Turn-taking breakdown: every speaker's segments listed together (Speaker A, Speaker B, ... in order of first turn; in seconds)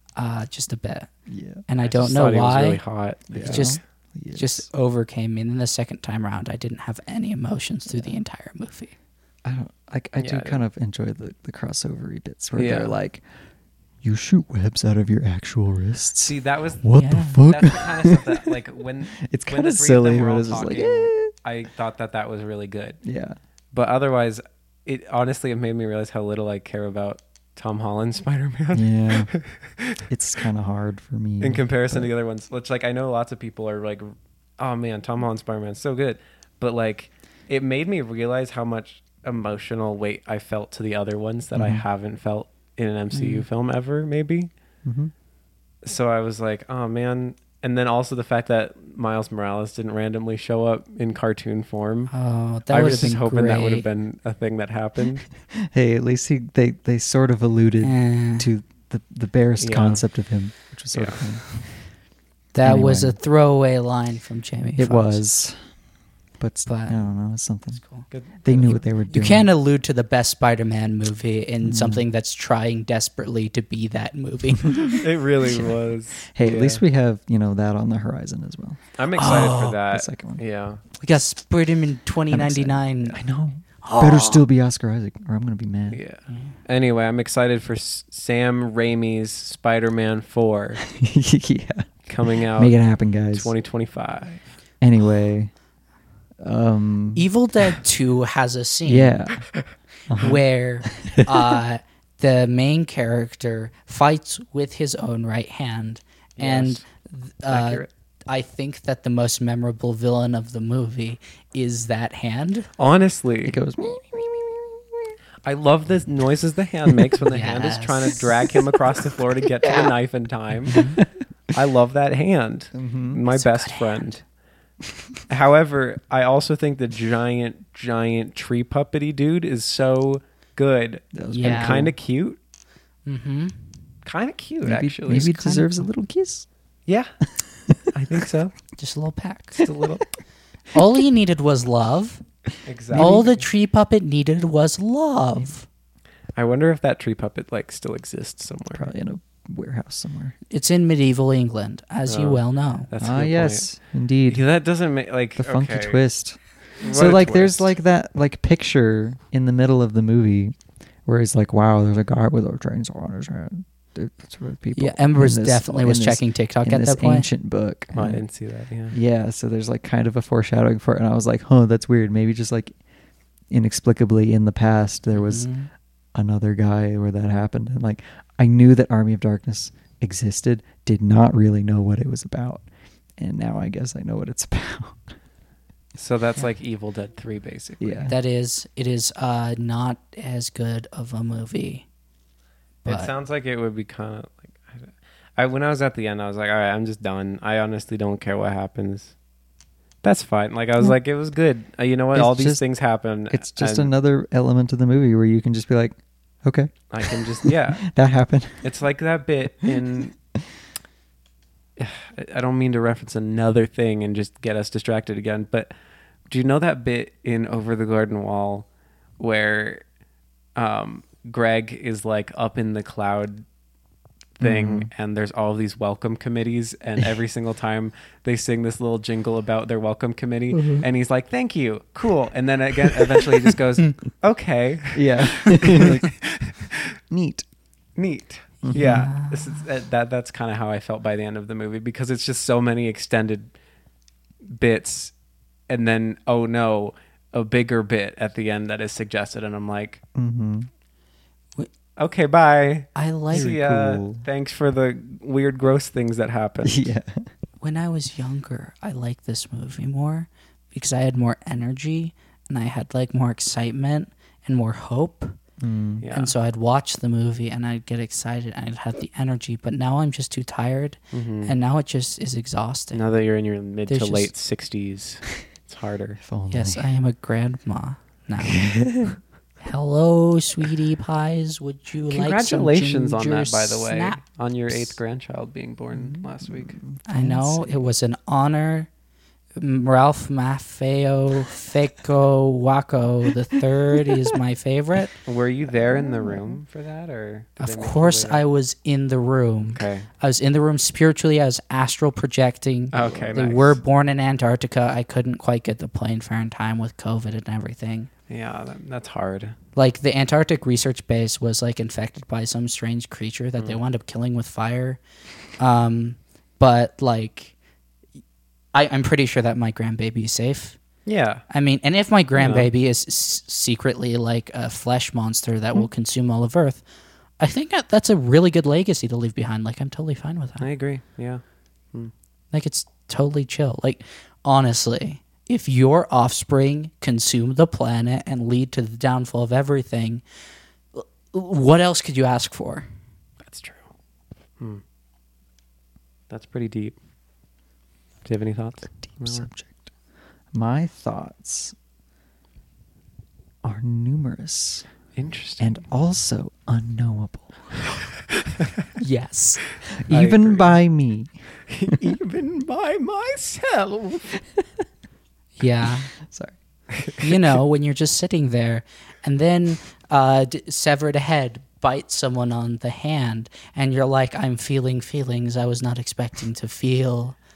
Speaker A: 0.2-1.1, 1.7-2.8, 3.4-3.8, 4.3-8.9, 16.9-17.4, 43.1-43.5, 52.1-53.9, 57.8-58.5, 62.5-65.2, 66.7-67.0, 67.8-68.1, 69.1-75.0, 79.2-79.8, 81.0-83.2, 83.8-84.5, 97.2-99.2, 100.2-112.7, 117.3-118.5, 120.7-121.0, 123.3-124.1, 131.3-131.8, 133.1-133.6, 135.1-135.8, 138.8-139.7, 140.7-142.2, 142.9-145.7, 150.5-152.9, 164.8-167.3, 175.1-175.7, 188.1-191.9, 192.8-193.1, 238.7-239.6, 252.9-253.5, 257.6-265.4, 266.1-273.0, 273.9-274.3, 276.5-278.8, 279.6-284.2, 287.1-288.9, 289.6-295.1, 297.6-308.1, 309.8-315.0, 315.6-317.5, 318.7-320.8, 321.5-326.8, 327.4-330.7, 332.5-340.2, 340.9-342.9, 359.0-359.6, 365.6-366.1, 367.2-377.4
Speaker B: 1.3-1.6, 3.3-4.7, 9.4-13.2, 14.0-18.5, 19.2-21.3, 23.0-23.4, 28.7-29.3, 30.1-32.1, 41.5-41.9, 44.9-45.1, 55.5-61.8, 62.6-63.2, 64.8-65.6, 66.4-67.8, 68.5-69.5, 71.6-72.0, 74.7-75.0, 76.3-80.4, 82.3-86.0, 90.8-93.5, 94.8-95.5, 96.4-97.3, 98.9-99.5, 100.1-101.6, 113.5-115.1, 119.6-119.9, 120.7-121.1, 122.7-123.2, 131.1-131.9, 134.6-136.5, 137.4-138.2, 142.9-143.3, 148.7-150.3, 153.0-154.4, 155.4-160.6, 161.1-168.2, 168.9-172.8, 173.5-175.5, 176.2-182.7, 183.2-185.2, 187.8-188.2, 202.1-202.6, 203.3-208.7, 224.4-224.9, 234.9-236.2, 237.1-237.4, 238.6-239.1, 250.2-250.7, 253.3-254.2, 256.6-257.3, 265.6-266.1, 276.2-276.9, 278.4-279.2, 285.9-287.9, 295.7-296.6, 349.1-349.8, 350.5-351.8, 353.6-354.9, 355.6-357.8, 360.0-361.3, 366.2-366.6
Speaker C: 1.8-3.8, 10.2-10.6, 12.6-13.0, 16.2-23.0, 23.7-30.0, 31.4-44.5, 45.8-52.1, 52.7-55.3, 59.6-60.0, 60.9-61.2, 68.1-68.8, 74.9-76.8, 79.0-80.8, 85.9-90.8, 92.1-92.7, 93.3-94.4, 106.4-106.8, 107.5-107.9, 112.8-113.6, 115.4-120.9, 121.5-124.2, 125.3-132.4, 134.1-135.3, 136.9-137.1, 137.9-138.5, 139.6-140.1, 142.7-143.4, 146.4-148.9, 152.1-153.7, 154.3-156.0, 156.8-157.7, 167.9-169.0, 186.0-188.1, 192.8-199.1, 200.0-203.9, 206.9-207.8, 208.6-210.1, 211.8-215.7, 216.3-218.7, 219.2-219.8, 220.6-223.4, 224.4-236.9, 238.0-243.5, 244.5-245.1, 245.7-250.0, 252.0-256.9, 266.0-266.3, 271.1-271.6, 272.9-276.2, 282.1-286.8, 295.2-298.4, 299.7-300.1, 302.9-303.8, 308.3-309.6, 321.1-321.4, 322.4-322.7, 330.6-331.4, 343.4-343.9, 346.3-347.0, 348.2-349.5, 355.2-355.8, 360.1-360.8, 361.7-364.4